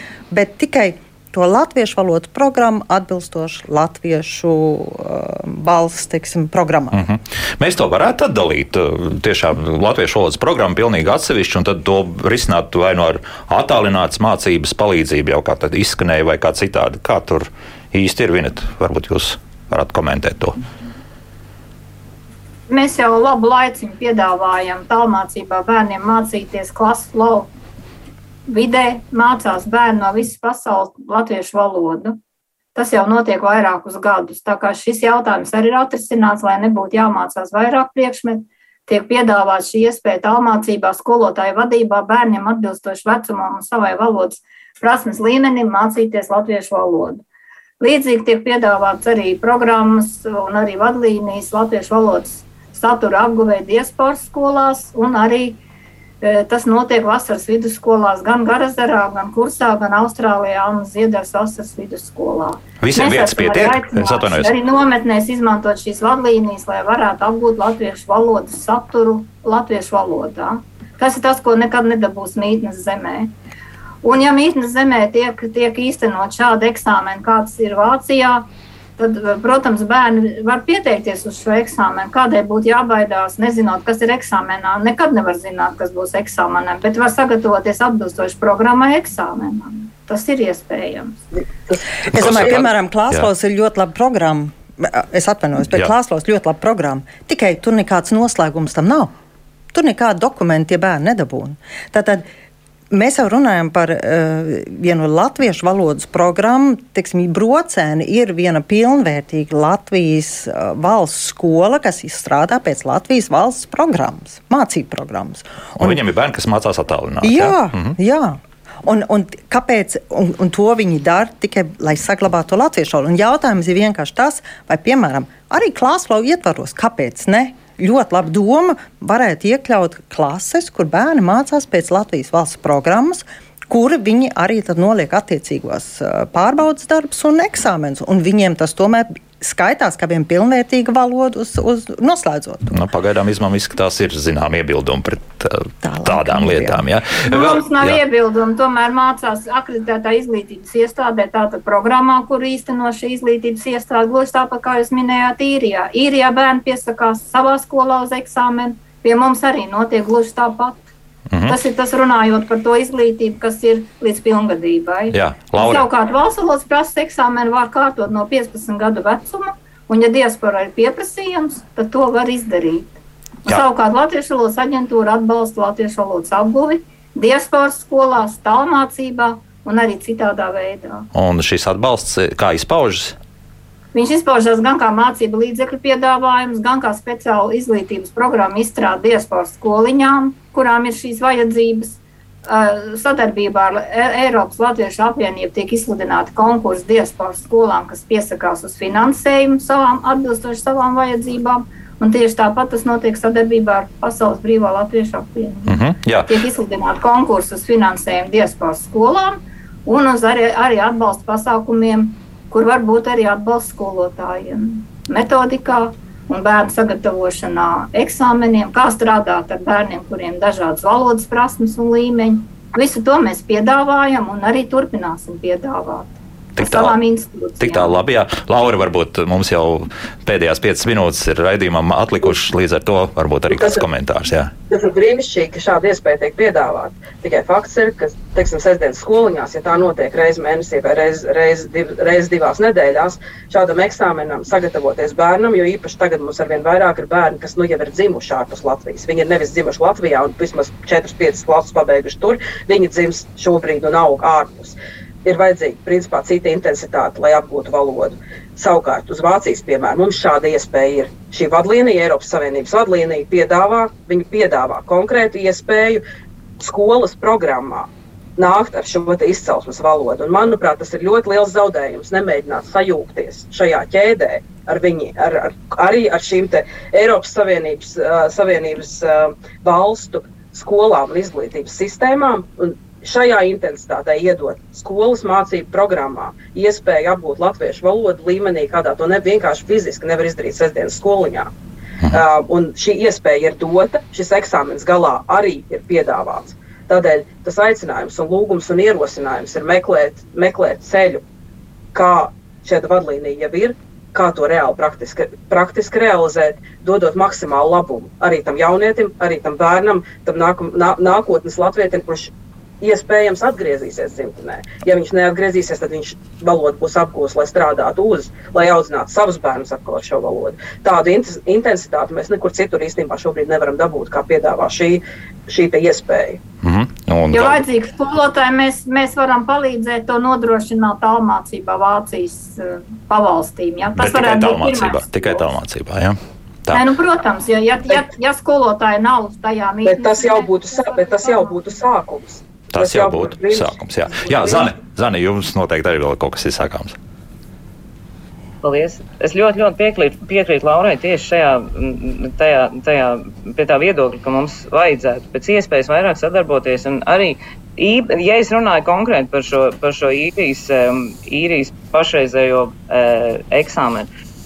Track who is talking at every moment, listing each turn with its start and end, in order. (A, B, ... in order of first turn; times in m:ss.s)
0:00.3-0:07.0 A
0:06.9-0:20.6 B
0:22.7-0:27.5 C
0:28.5-0:32.2 C
0:32.7-0:47.2 C
0:47.8-0:55.6 C
0:56.2-1:13.3 C
1:02.8-1:04.5 B
1:14.0-1:18.5 C
1:19.0-1:31.2 C
1:31.7-1:32.6 D
1:32.1-1:33.3 B
1:32.1-1:39.1 A
1:39.7-1:42.2 A
1:42.9-1:56.0 A
1:55.8-1:58.0 B
1:57.2-2:22.8 A
2:22.7-2:28.0 B
2:25.8-2:26.8 A
2:27.2-2:40.8 C
2:41.3-2:41.6 B
2:41.4-2:52.9 C
2:45.1-2:45.8 B
2:53.4-3:01.1 C
3:01.1-3:03.1 B
3:03.9-3:48.0 C
3:25.7-3:26.3 B
3:46.6-3:47.0 B
3:47.6-3:54.5 B
3:53.5-3:53.8 D
3:54.7-4:26.0 D
4:26.6-4:51.5 D
4:52.1-5:01.2 D
5:01.9-5:26.4 D
5:26.6-5:27.6 B
5:27.3-5:35.5 C
5:34.0-5:36.8 B
5:36.7-5:41.6 C
5:39.8-5:44.7 D
5:42.7-5:47.0 B
5:48.6-6:04.1 E